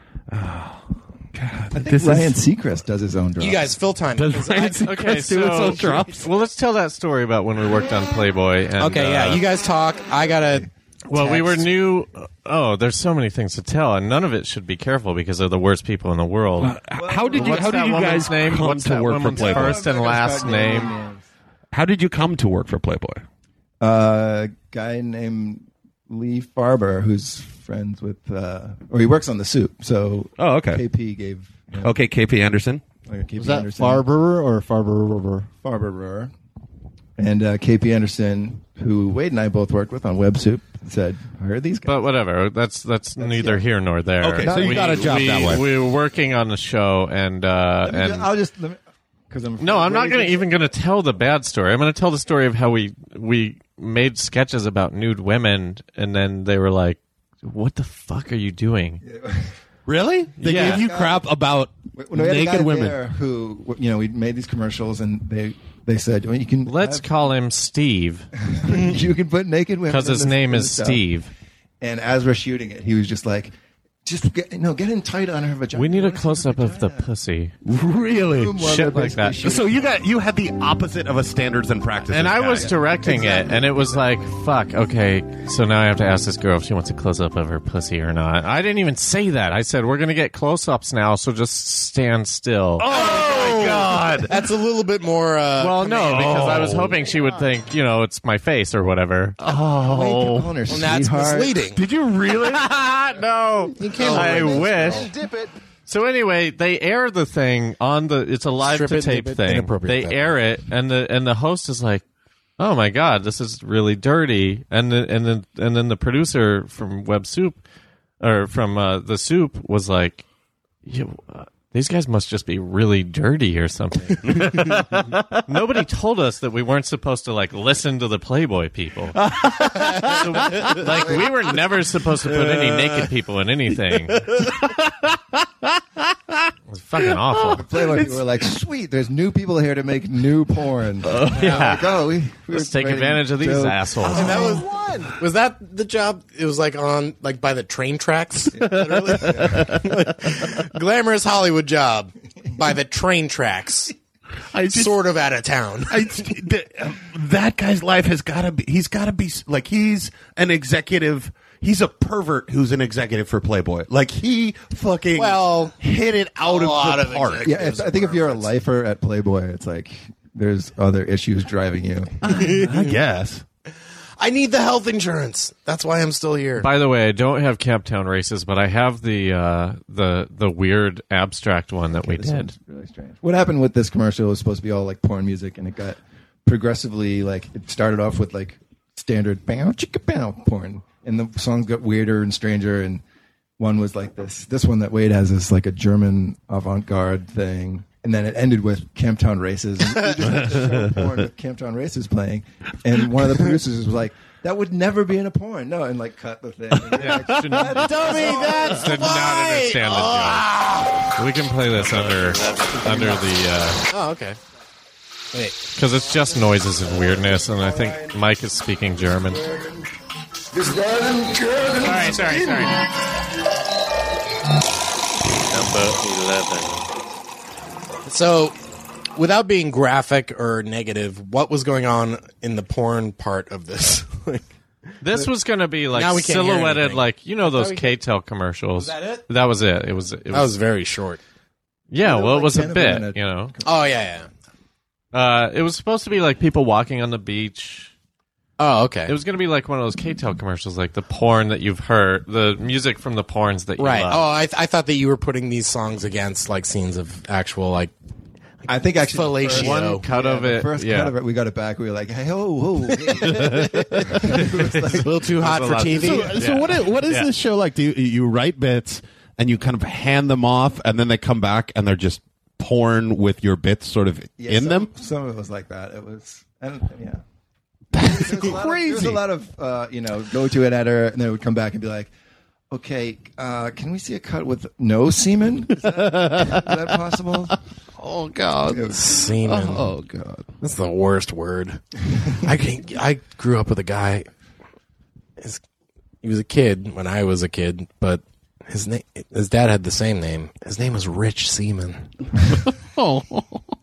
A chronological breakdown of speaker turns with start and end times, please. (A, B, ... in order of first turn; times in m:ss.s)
0:00.3-0:02.4 A
0:01.7-0:03.7 B
0:03.4-0:04.9 C
0:04.2-0:06.3 A
0:04.8-0:09.4 D
0:08.8-0:11.7 C
0:11.1-0:16.8 D
0:16.6-0:19.8 A
0:17.0-0:18.0 B
0:17.3-0:20.9 D
0:19.2-0:21.3 B
0:21.7-0:23.2 A
0:23.8-0:32.0 B
0:30.4-0:30.8 A
0:31.8-0:32.8 A
0:33.0-0:34.1 B
0:33.4-0:35.5 E
0:35.6-0:36.3 B
0:37.2-0:42.1 B
0:41.9-0:48.3 D
0:43.2-0:43.7 B
0:44.2-0:45.6 A
0:44.4-0:45.6 B
0:47.8-0:50.7 B
0:49.6-0:59.0 D
0:59.0-0:59.5 B
0:59.9-1:03.0 A
1:00.4-1:00.8 D
1:00.4-1:01.3 B
1:01.9-1:07.1 B
1:06.7-1:08.3 D
1:08.4-1:11.0 B
1:08.7-1:09.0 C
1:09.9-1:11.3 D
1:11.8-1:13.5 B
1:14.0-1:17.1 B
1:15.7-1:17.5 D
1:17.6-1:18.6 A
1:18.4-1:19.9 B
1:18.6-1:19.4 D
1:19.4-1:22.7 A
1:22.1-1:32.9 D
1:22.5-1:24.0 B
1:32.8-1:34.4 A
1:32.9-1:36.8 C
1:35.6-1:39.4 D
1:36.0-1:37.1 A
1:39.4-1:40.4 A
1:39.8-1:41.6 B
1:40.7-1:41.8 C
1:41.8-1:42.7 A
1:42.4-1:45.1 D
1:43.8-1:45.1 A
1:43.8-1:45.1 C
1:44.2-1:45.5 B
1:45.9-1:52.0 D
1:48.6-1:50.2 C
1:52.6-1:57.6 D
1:58.2-2:00.2 D
2:00.9-2:09.2 D
2:04.3-2:05.2 A
2:09.2-2:11.3 A
2:09.9-2:14.3 D
2:12.2-2:13.1 A
2:14.1-2:16.5 A
2:16.7-2:17.7 D
2:17.1-2:18.2 A
2:17.5-2:24.8 B
2:21.1-2:21.6 A
2:21.3-2:21.9 D
2:22.5-2:24.4 D
2:24.1-2:24.6 C
2:24.1-2:24.7 A
2:25.2-2:33.9 C
2:28.5-2:29.8 B
2:28.6-2:29.9 A
2:34.5-2:35.0 A
2:34.7-2:36.2 C
2:35.9-2:47.5 A
2:45.2-2:45.8 C
2:46.4-2:48.5 C
2:47.4-2:52.4 B
2:52.2-2:53.4 A
2:52.3-2:53.0 C
2:54.2-2:56.7 C
2:56.6-3:02.5 D
3:02.0-3:13.0 B
3:13.6-3:28.6 B
3:20.3-3:20.9 A
3:26.9-3:27.2 A
3:27.0-3:30.5 D
3:27.8-3:31.1 C
3:31.2-3:33.8 D
3:32.5-3:33.1 C
3:33.9-3:34.4 C
3:35.3-3:35.6 C
3:35.8-3:39.5 D
3:37.9-3:38.1 B
3:40.6-3:41.7 B
3:41.8-3:42.8 D
3:45.6-3:46.1 D
3:48.1-3:48.6 C
3:49.2-3:54.5 C
3:55.0-4:00.5 D
3:55.9-3:58.0 C
3:58.8-3:59.3 C
4:00.3-4:01.2 C
4:01.9-4:03.5 D
4:02.0-4:03.9 B
4:03.6-4:04.3 C
4:05.1-4:07.9 D
4:08.6-4:09.1 C
4:09.1-4:14.2 D
4:13.8-4:17.9 C
4:18.7-4:25.8 B
4:19.0-4:20.0 C
4:19.5-4:21.1 D
4:23.2-4:24.5 A
4:25.0-4:26.4 C
4:25.3-4:27.3 D
4:25.9-4:34.9 A
4:34.4-4:37.2 B
4:37.9-4:39.2 A
4:38.0-4:42.1 B
4:42.7-4:47.6 B
4:45.8-4:46.7 A
4:48.0-4:50.5 A
4:48.7-4:49.0 B
4:48.9-4:49.9 C
4:50.6-4:54.3 C
4:56.2-5:02.0 C
5:02.7-5:03.6 A